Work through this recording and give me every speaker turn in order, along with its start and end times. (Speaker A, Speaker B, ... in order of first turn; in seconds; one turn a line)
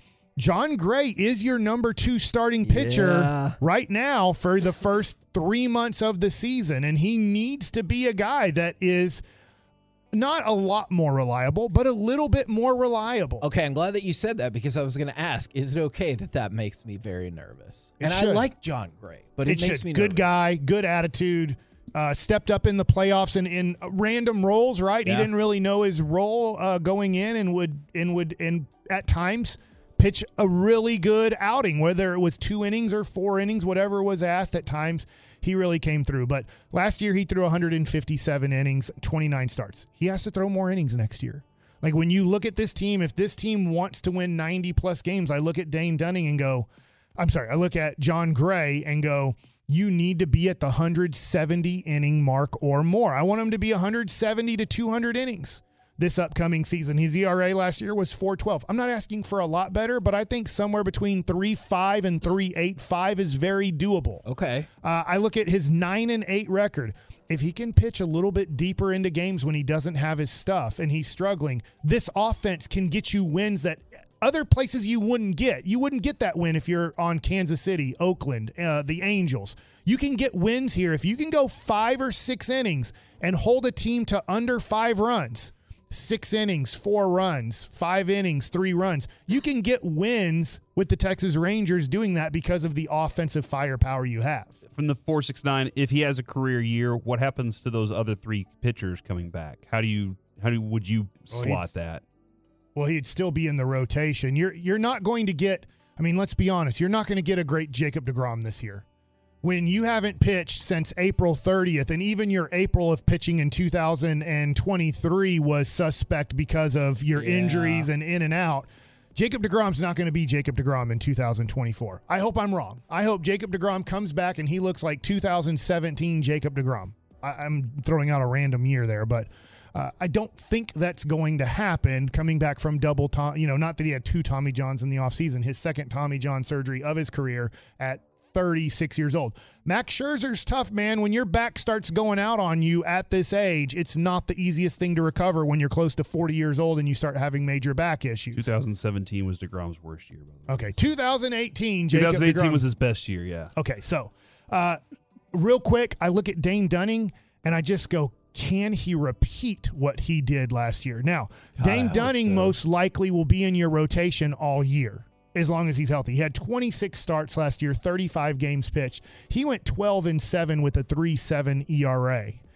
Speaker A: 0.4-9.2
Speaker B: 2.6-3.6
Speaker A: 10.1-13.4
Speaker B: 13.4-20.3
Speaker A: 18.0-18.5
Speaker A: 19.5-64.2
Speaker B: 25.1-25.3
Speaker B: 64.3-64.7
Speaker A: 64.8-94.6
Speaker C: 94.7-102.0
Speaker A: 101.3-101.7
Speaker A: 102.8-108.8
Speaker A: 109.4-148.5
Speaker B: 117.1-117.9
Speaker C: 148.3-150.8
Speaker A: 150.5-152.7
Speaker C: 151.9-153.5
Speaker A: 153.6-154.8
Speaker A: 155.3-172.4
Speaker B: 161.6-162.6